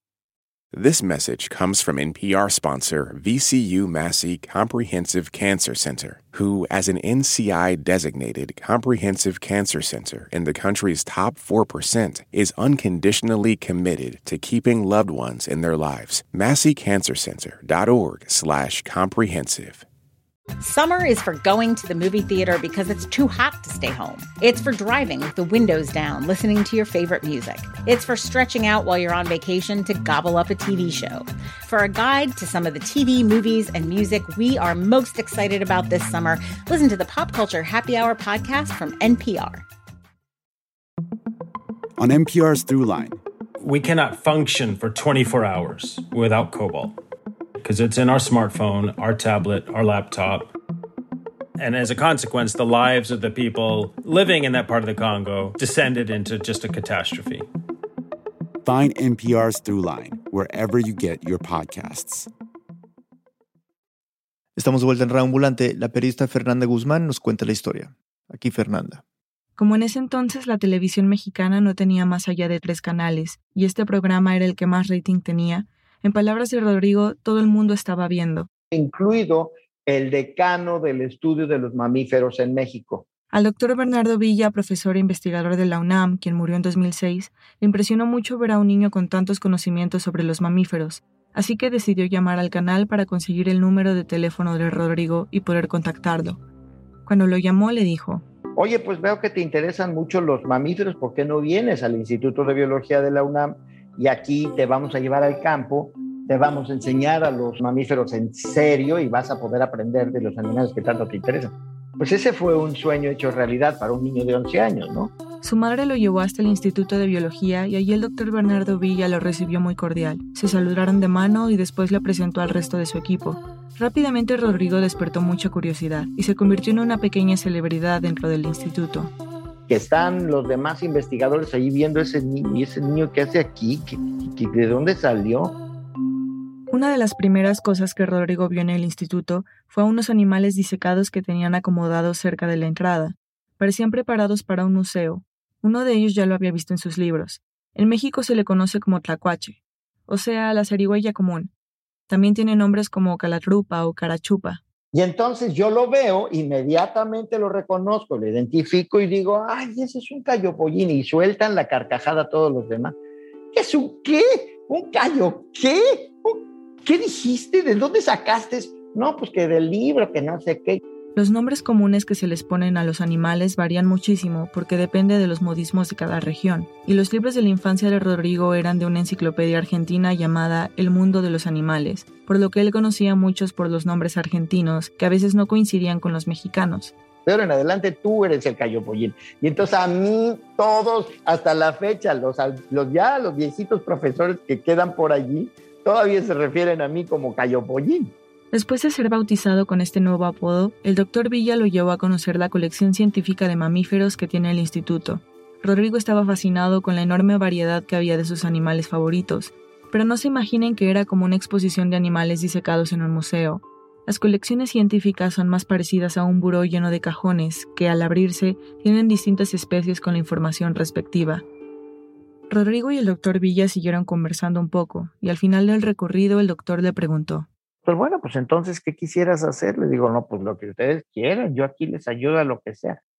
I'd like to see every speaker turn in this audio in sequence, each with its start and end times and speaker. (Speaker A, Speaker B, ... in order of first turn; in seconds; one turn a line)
Speaker A: 0.7-19.9
Speaker B: 20.6-39.6
Speaker C: 42.0-43.2
Speaker D: 43.6-47.0
Speaker D: 47.6-50.5
Speaker D: 51.6-57.5
Speaker C: 58.6-62.3
Speaker E: 64.6-69.0
Speaker F: 69.6-78.5
Speaker G: 78.7-83.0
Speaker F: 83.3-96.4
Speaker F: 97.1-98.2
Speaker G: 98.6-115.1
Speaker F: 115.4-129.1
Speaker G: 129.7-135.6
Speaker F: 136.7-149.6
Speaker F: 150.1-151.5
Speaker F: 152.1-154.6
Speaker G: 154.9-162.9
Speaker G: 163.5-170.8
Speaker F: 171.2-186.9
Speaker G: 187.2-198.1
Speaker F: 198.5-221.4
Speaker F: 222.5-227.5
Speaker G: 227.8-233.0